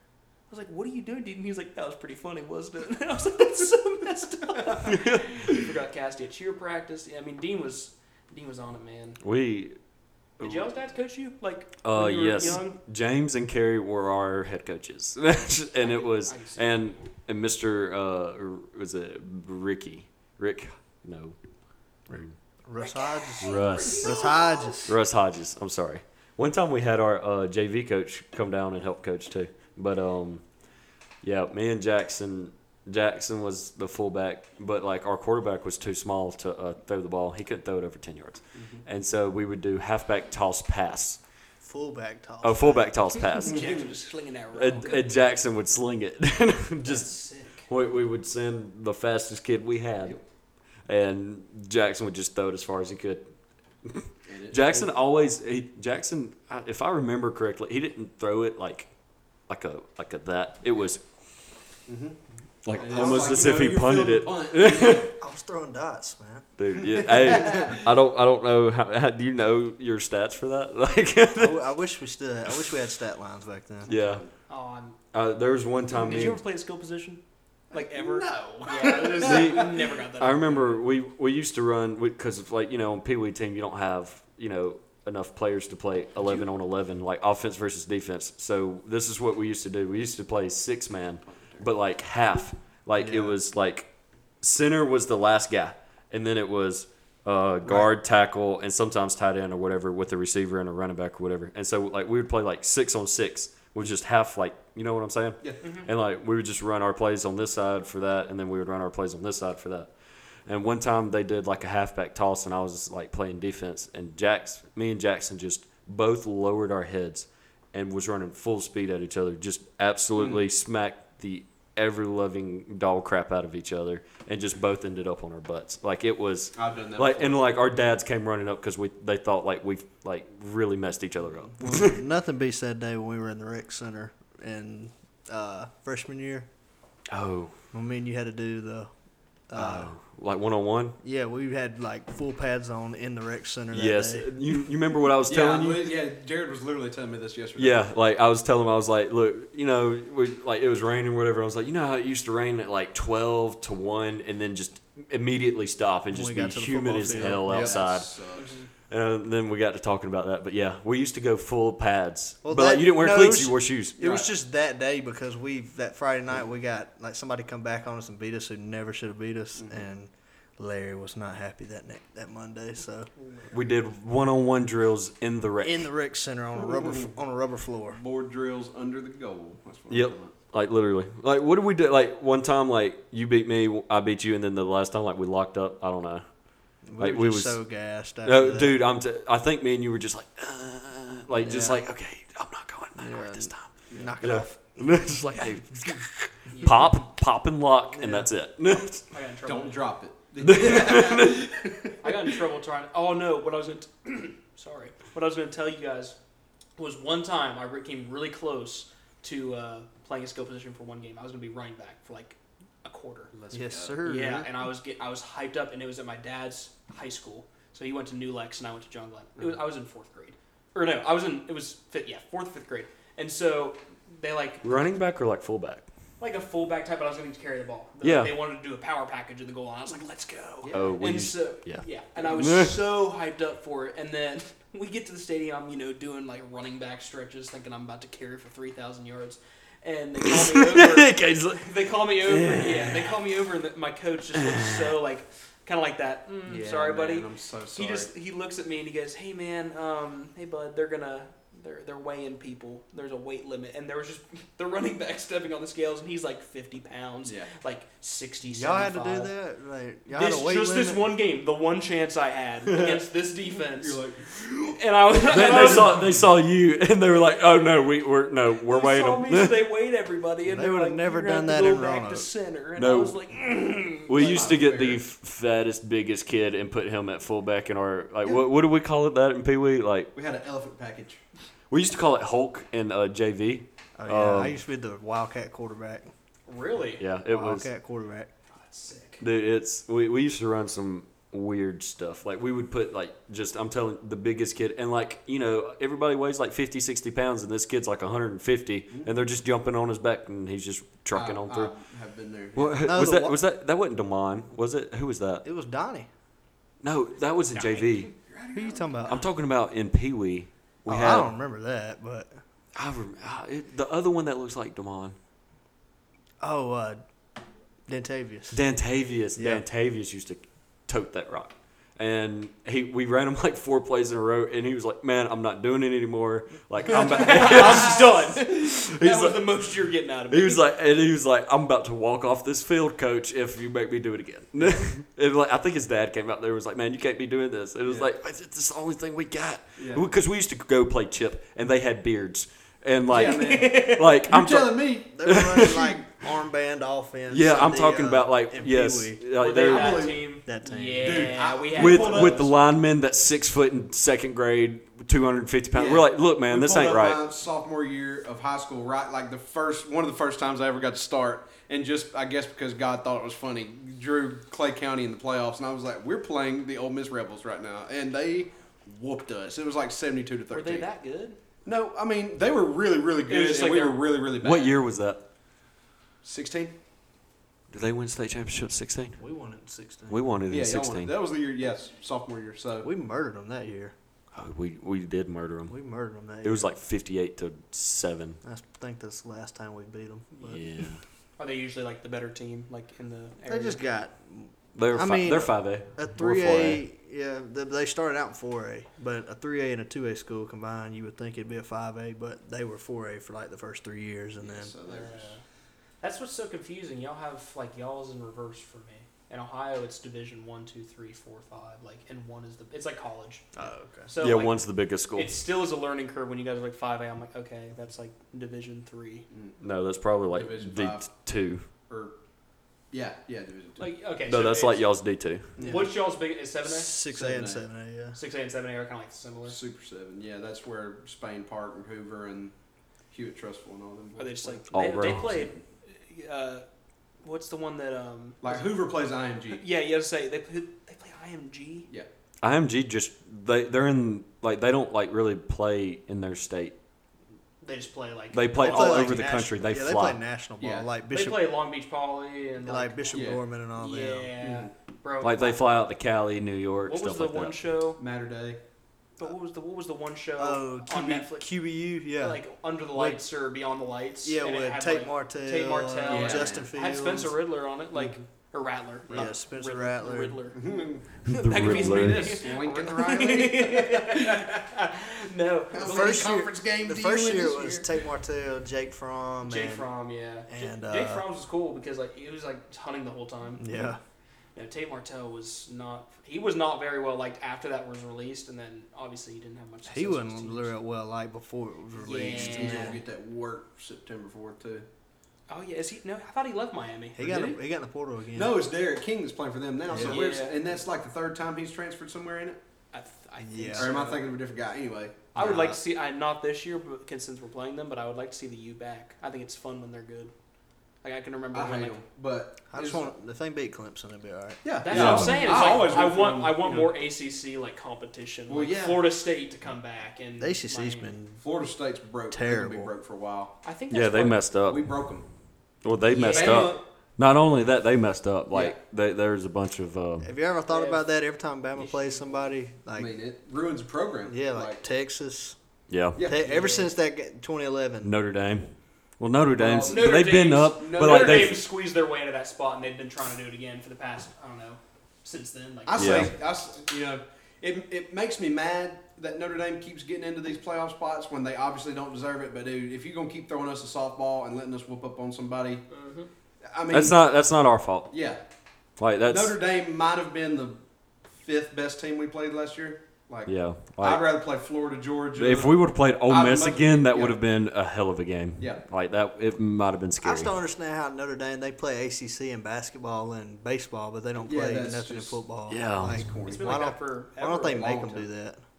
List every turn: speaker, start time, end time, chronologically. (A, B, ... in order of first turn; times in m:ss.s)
0:00.5-0:09.2 A
0:04.9-0:05.5 B
0:09.2-0:09.8 B
0:10.4-0:10.6 B
0:10.4-0:12.8 A
0:11.8-0:21.4 B
0:15.8-0:17.0 A
0:22.6-0:25.0 C
0:22.8-0:24.8 A
0:23.4-0:24.2 B
0:24.8-0:30.4 B
0:31.2-0:41.2 B
0:38.6-0:38.8 D
0:41.6-0:43.0 C
0:42.4-0:43.8 B
0:43.3-0:45.1 A
0:43.4-0:43.8 D
0:44.5-0:47.1 B
0:46.8-0:47.7 A
0:47.7-0:50.2 B
0:50.9-0:53.2 B
0:53.8-0:58.9 B
0:54.3-0:54.8 D
0:59.5-1:01.0 B
1:01.9-1:02.2 D
1:02.6-1:05.1 B
1:02.7-1:05.1 D
1:03.0-1:03.3 C
1:05.1-1:06.5 C
1:06.6-1:11.6 B
1:07.2-1:07.8 D
1:11.3-1:13.9 C
1:13.8-1:14.3 D
1:13.9-1:14.2 B
1:14.5-1:15.0 A
1:15.1-1:16.4 B
1:15.9-1:20.8 A
1:17.7-1:19.7 D
1:19.2-1:33.9 B
1:33.0-1:33.4 C
1:34.4-1:49.9 B
1:50.4-2:12.0 B
2:06.6-2:07.4 D
2:11.6-2:16.5 C
2:17.1-2:17.5 B
2:17.7-2:18.9 C
2:19.5-2:19.9 C
2:19.5-2:21.0 B
2:21.0-2:24.3 C
2:23.7-2:25.9 B
2:25.3-2:27.8 D
2:27.6-2:38.1 B
2:36.1-2:37.9 C
2:37.1-2:38.5 D
2:38.4-2:38.7 A
2:38.9-2:44.0 B
2:42.4-2:53.1 C
2:44.0-2:44.3 D
2:53.5-2:55.9 B
2:55.6-2:58.0 C
2:56.7-2:57.1 D
2:57.9-3:00.3 D
2:59.9-3:06.2 B
3:06.8-3:08.8 C
3:07.0-3:07.6 B
3:08.2-3:19.0 B
3:11.4-3:11.8 C
3:13.0-3:14.6 C
3:16.5-3:16.9 A
3:18.0-3:18.3 C
3:19.1-3:19.8 A
3:19.4-3:21.9 D
3:20.4-3:21.6 B
3:22.0-3:26.2 A
3:26.8-3:33.3 A
3:33.3-3:34.0 D
3:33.5-3:34.5 C
3:34.0-3:44.7 A
3:44.6-3:45.8 B
3:46.2-4:19.3 A
3:48.0-3:48.4 B
3:50.6-3:51.0 D
3:50.7-3:52.8 B
4:00.2-4:03.2 B
4:04.4-4:04.8 B
4:06.4-4:08.1 D
4:17.2-4:17.5 D
4:18.4-4:21.1 C
4:20.1-4:24.0 A
4:23.6-4:26.1 D
4:24.7-4:26.0 A
4:25.3-4:29.6 B
4:28.6-4:34.6 A
4:30.4-4:32.3 C
4:32.8-4:33.2 B
4:34.1-4:40.1 B
4:34.1-4:35.0 D
4:40.1-4:41.2 D
4:41.7-4:44.6 B
4:44.0-4:46.1 C
4:46.5-4:47.0 A
4:47.0-4:47.7 B
4:47.3-4:48.3 C
4:48.5-4:49.2 A
4:49.2-5:01.7 B
5:01.1-5:02.9 D
5:02.5-5:05.4 B
5:02.8-5:03.4 C
5:05.4-5:06.1 C
5:06.8-5:08.1 B
5:07.5-5:08.1 A
5:08.2-5:09.1 D
5:08.5-5:09.3 C
5:09.0-5:11.3 B
5:10.9-5:12.4 C
5:12.7-5:15.2 B
5:16.4-5:17.0 C
5:17.9-5:18.6 C
5:18.5-5:29.4 B
5:19.4-5:19.6 C
5:26.9-5:30.6 A
5:27.4-5:27.9 D
5:30.3-5:46.0 B
5:39.8-5:40.1 D
5:43.1-5:45.7 D
5:43.1-5:44.1 A
5:45.1-5:49.2 C
5:47.3-5:50.1 B
5:49.3-5:52.5 A
5:49.6-5:50.2 D
5:50.4-5:51.4 C
5:51.0-5:52.6 D
5:51.7-5:57.2 B
5:55.7-6:10.8 D
6:10.5-6:11.4 A
6:11.6-6:14.8 D
6:13.3-6:14.0 A
6:14.4-6:15.2 B
6:16.2-6:16.7 D
6:17.7-6:19.2 B
6:19.2-6:20.2 C
6:20.1-6:21.1 B
6:20.5-6:22.9 D
6:22.8-6:23.9 C
6:24.3-6:25.7 B
6:25.7-6:26.7 C
6:26.4-6:28.4 B
6:28.4-6:30.6 C
6:30.5-6:31.0 B
6:31.4-6:33.8 A
6:33.5-6:44.7 C
6:34.7-6:36.8 B
6:44.4-6:45.3 D
6:44.8-6:45.4 A
6:46.0-6:53.4 A
6:53.5-6:54.1 C
6:54.1-6:59.2 A
6:54.2-6:55.4 B
6:59.3-6:59.6 D
6:59.6-7:01.6 B
7:00.3-7:01.1 D
7:01.9-7:02.2 D
7:02.9-7:03.9 D
7:03.8-7:04.9 A
7:04.3-7:05.5 B
7:05.6-7:05.9 D
7:05.6-7:05.9 C
7:05.6-7:07.0 A
7:06.6-7:08.2 C
7:07.1-7:07.6 D
7:08.1-7:09.6 A
7:09.5-7:12.5 D
7:13.1-7:15.4 D
7:14.2-7:16.6 A
7:14.7-7:15.5 B
7:17.2-7:18.7 A
7:18.4-7:19.6 D
7:19.5-7:21.9 A
7:22.4-7:26.8 B
7:27.6-7:29.1 A
7:28.3-7:30.2 B
7:28.6-7:31.5 C
7:30.6-7:30.9 D
7:31.1-7:35.6 A
7:32.6-7:34.3 C
7:33.1-7:33.4 D
7:34.4-7:34.7 D
7:35.2-7:37.6 B
7:36.8-7:38.0 A
7:38.0-7:38.6 D
7:39.2-7:41.5 A
7:40.4-7:43.2 C
7:42.1-7:56.4 A
7:44.2-7:47.3 C
7:46.0-7:46.7 D
7:49.1-7:50.4 C
7:50.5-7:54.6 D
7:51.2-7:52.4 B
7:55.7-7:57.9 D
7:55.8-7:59.9 C
7:59.4-8:03.9 A
8:00.5-8:01.2 C
8:03.6-8:04.0 C
8:04.5-8:10.7 A
8:09.9-8:13.0 C
8:12.0-8:13.0 A
8:12.0-8:14.8 D
8:15.5-8:17.5 A
8:17.2-8:18.6 C
8:17.2-8:17.5 D
8:18.3-8:22.6 D
8:19.9-8:20.2 C
8:20.0-8:20.6 A
8:22.9-8:24.3 A
8:23.4-8:23.9 C
8:23.8-8:25.5 D
8:25.3-8:30.3 A
8:25.3-8:25.8 C
8:31.0-8:32.0 A
8:31.5-8:33.1 D
8:32.7-8:35.2 C
8:34.6-8:36.9 D
8:34.8-8:41.1 A
8:34.9-8:35.4 B
8:38.5-8:39.0 D
8:40.4-8:41.4 C
8:41.4-8:43.5 D
8:42.3-8:42.9 C
8:43.6-8:44.4 A
8:43.9-8:45.0 B
8:44.6-8:45.2 D
8:45.8-8:50.3 B
8:46.1-8:46.8 A
8:46.2-8:46.8 D
8:48.5-8:48.8 D
8:50.2-8:53.1 C
8:50.7-8:51.0 A
8:51.7-8:52.4 A
8:52.9-8:54.8 D
8:54.2-8:55.6 C
8:55.9-8:56.2 B
8:56.2-8:56.7 D
8:56.2-8:58.1 C
8:56.4-8:56.9 A
8:58.0-9:01.7 B
8:59.5-9:01.6 D
8:59.8-9:06.3 A
9:05.9-9:15.8 D
9:06.0-9:06.3 B
9:15.9-9:16.3 A
9:16.6-9:17.2 D
9:16.9-9:18.1 B
9:18.1-9:18.4 D
9:19.0-9:19.5 B
9:19.2-9:20.8 D
9:21.3-9:27.4 D
9:23.4-9:24.2 B
9:25.4-9:30.5 B
9:30.2-9:38.6 C
9:34.4-9:35.4 D
9:35.7-9:36.2 B
9:36.1-9:36.9 D
9:36.4-9:38.1 A
9:37.7-9:38.2 D